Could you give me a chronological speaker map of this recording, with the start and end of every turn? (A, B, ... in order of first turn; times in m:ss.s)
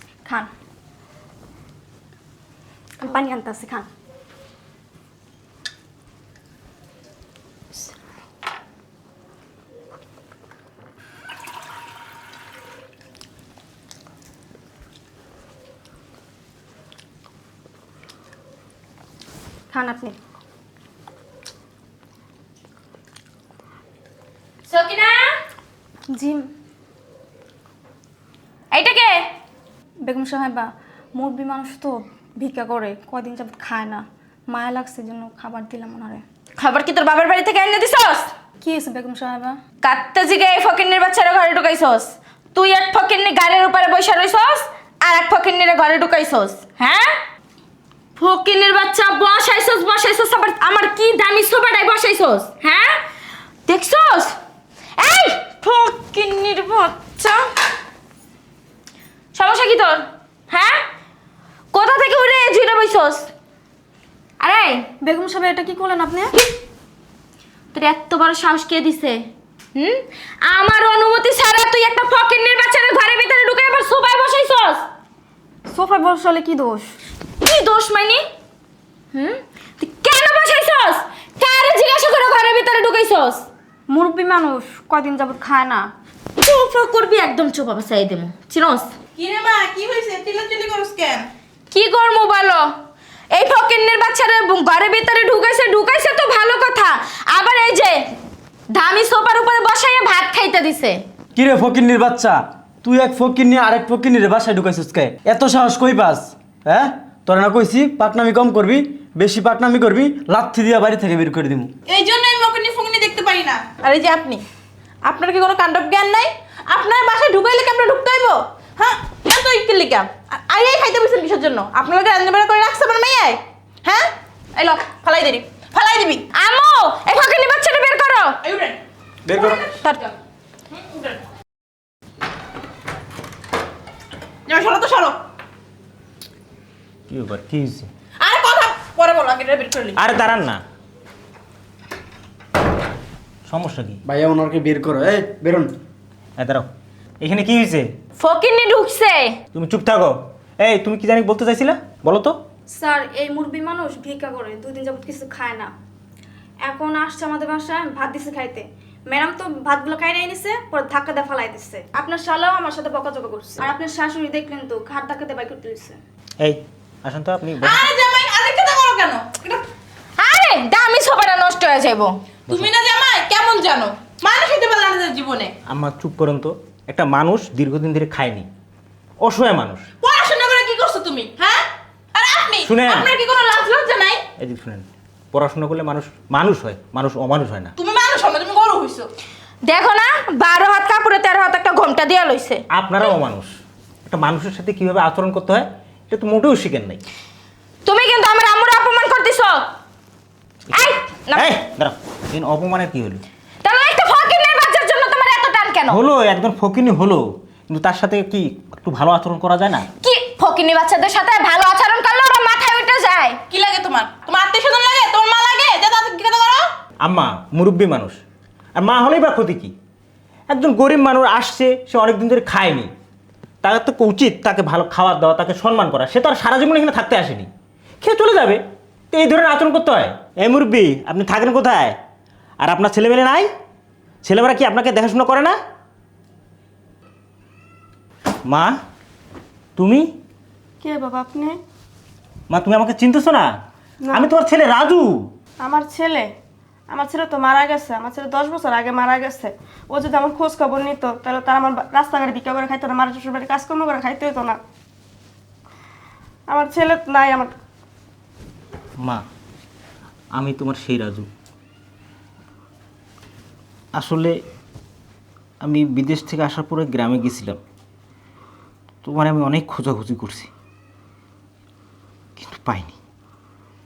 0:00.2-0:00.5 A
0:03.0-0:03.9 A
0:19.7-0:20.2 A
0:24.7-0:25.3 B
0:26.1-0:26.4 A
0:28.7-0:29.3 B
0:30.0-0:36.2 A
0:36.6-0:38.3 B
0:38.6-0:39.6 A
0:39.8-0:47.1 B
0:48.2-0:53.0 B
0:53.7-0:54.4 B
0:55.0-0:57.4 B
0:59.3-1:00.8 B
1:01.7-1:03.3 B
1:04.4-1:04.8 B
1:05.0-1:06.3 A
1:07.7-1:14.8 B
1:15.7-1:16.9 A
1:17.4-1:18.2 B
1:19.1-1:23.5 B
1:23.9-1:25.9 A
1:26.4-1:28.9 B
1:29.2-1:31.3 C
1:31.7-1:32.7 B
1:33.3-1:38.2 B
1:38.7-1:41.0 B
1:41.4-1:51.7 D
1:51.9-1:54.4 C
1:55.0-2:06.3 C
2:06.3-2:08.4 B
2:08.4-2:08.8 C
2:09.3-2:09.6 D
2:09.3-2:10.1 C
2:10.7-2:11.2 C
2:14.5-2:15.2 C
2:17.1-2:17.9 E
2:18.2-2:20.0 C
2:20.0-2:20.6 E
2:23.5-2:24.0 E
2:24.1-2:25.7 D
2:26.4-2:26.7 E
2:27.2-2:27.9 E
2:28.2-2:29.4 B
2:29.5-2:32.4 E
2:32.7-2:35.7 A
2:36.6-2:46.0 A
2:46.4-2:47.9 E
2:47.6-2:49.6 C
2:50.2-2:52.2 B
2:52.5-2:55.5 C
2:55.7-2:58.5 E
2:59.2-2:59.9 E
3:00.0-3:01.6 C
3:02.2-3:04.2 C
3:02.6-3:03.1 E
3:04.4-3:07.7 E
3:07.8-3:09.1 C
3:09.7-3:12.6 B
3:12.7-3:13.5 E
3:14.1-3:17.0 E
3:17.8-3:19.6 B
3:20.7-3:23.2 E
3:20.7-3:21.5 B
3:23.6-3:26.0 B
3:25.9-3:29.9 E
3:30.0-3:33.4 B
3:33.5-3:36.7 C
3:37.0-3:38.2 E
3:38.8-3:39.7 E
3:40.5-3:42.9 E
3:43.6-3:47.5 E
3:48.0-3:48.6 E
3:49.1-3:52.0 E
3:52.6-3:53.5 E
3:54.2-3:55.6 E
3:58.5-3:58.7 E
3:59.8-4:00.1 E
4:00.8-4:01.6 F
4:02.5-4:03.5 E
4:04.1-4:05.2 E
4:05.6-4:06.3 F
4:06.9-4:14.6 F
4:16.5-4:17.5 F
4:20.4-4:21.3 E
4:24.0-4:24.3 E
4:25.6-4:27.6 E
4:29.0-4:30.5 E
4:32.4-4:33.0 E